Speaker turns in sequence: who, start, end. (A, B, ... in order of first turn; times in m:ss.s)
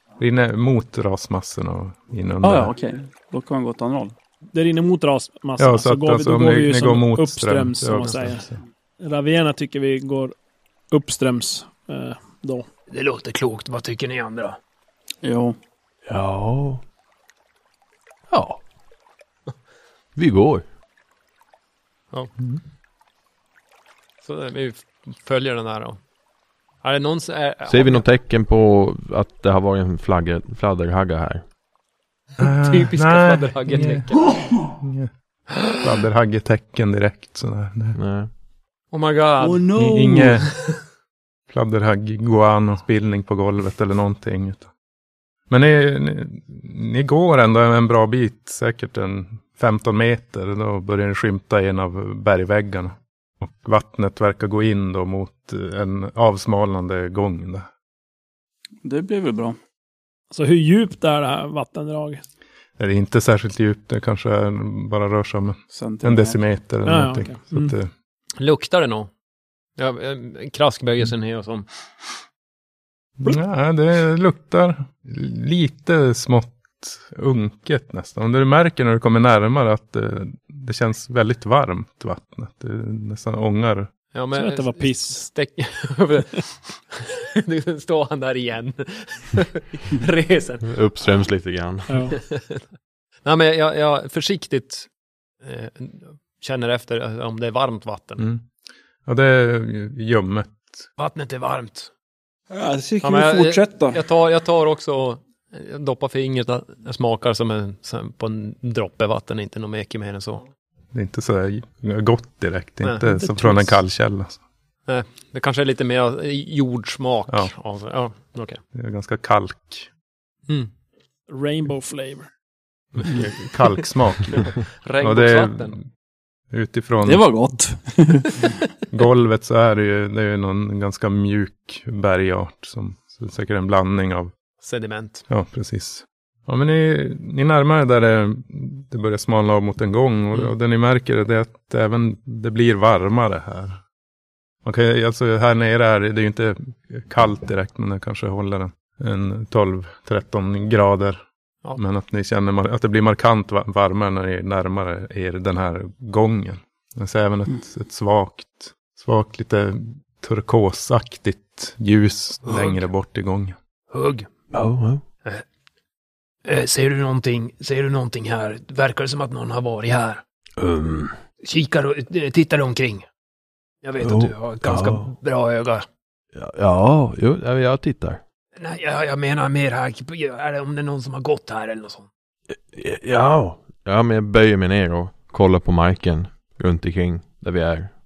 0:00.2-0:02.7 A
0:02.4-0:04.1 B
0:04.5-0:08.4 C
0:05.6-0:08.6 A
0:09.0-0:10.3 C
0:10.9-0:12.6 C
0:12.9-0:14.6 D
0:15.2-0:15.6 B
0:16.0-0:16.8 E
0:18.3-0:18.6 E
0:20.2-0:20.6 E
0:24.2-0:26.0 D
0:26.8-0:28.0 D
0:27.7-0:31.4 E
0:32.4-0:35.1 A
0:32.4-0:34.3 D
0:35.7-0:38.0 A
0:37.9-0:38.3 E
0:38.9-0:39.7 D
0:39.4-0:40.4 B
0:39.8-0:40.5 A
0:41.5-0:44.7 A
0:45.5-0:57.7 A
0:58.8-0:59.6 B
1:00.3-1:02.2 C
1:02.8-1:07.9 A
1:05.7-1:06.4 B
1:06.8-1:07.7 C
1:08.4-1:09.1 D
1:09.8-1:11.7 D
1:13.2-1:23.9 A
1:24.1-1:31.1 D
1:24.3-1:25.2 C
1:30.6-1:31.9 E
1:31.9-1:32.2 C
1:32.1-1:32.6 D
1:33.2-1:34.9 D
1:35.4-1:38.2 D
1:38.2-1:38.5 A
1:39.0-1:40.8 A
1:41.0-1:41.9 D
1:42.5-1:44.0 B
1:43.0-1:50.4 D
1:50.9-1:54.4 A
1:53.2-1:53.7 C
1:54.9-1:58.6 D
1:58.7-1:59.9 A
2:01.3-2:02.3 C
2:02.9-2:05.8 A
2:04.3-2:05.8 D
2:06.5-2:07.4 A
2:07.0-2:08.6 B
2:08.9-2:14.3 A
2:14.6-2:15.2 D
2:15.3-2:23.8 A
2:24.6-2:31.2 A
2:31.7-2:43.6 A
2:43.9-2:44.3 D
2:44.5-2:45.0 E
2:46.4-2:50.2 D
2:50.6-2:51.1 E
2:51.4-2:53.0 D
2:53.8-2:55.8 D
2:54.0-2:55.1 E
2:56.3-2:58.2 E
2:58.6-3:02.1 D
3:02.7-3:07.9 E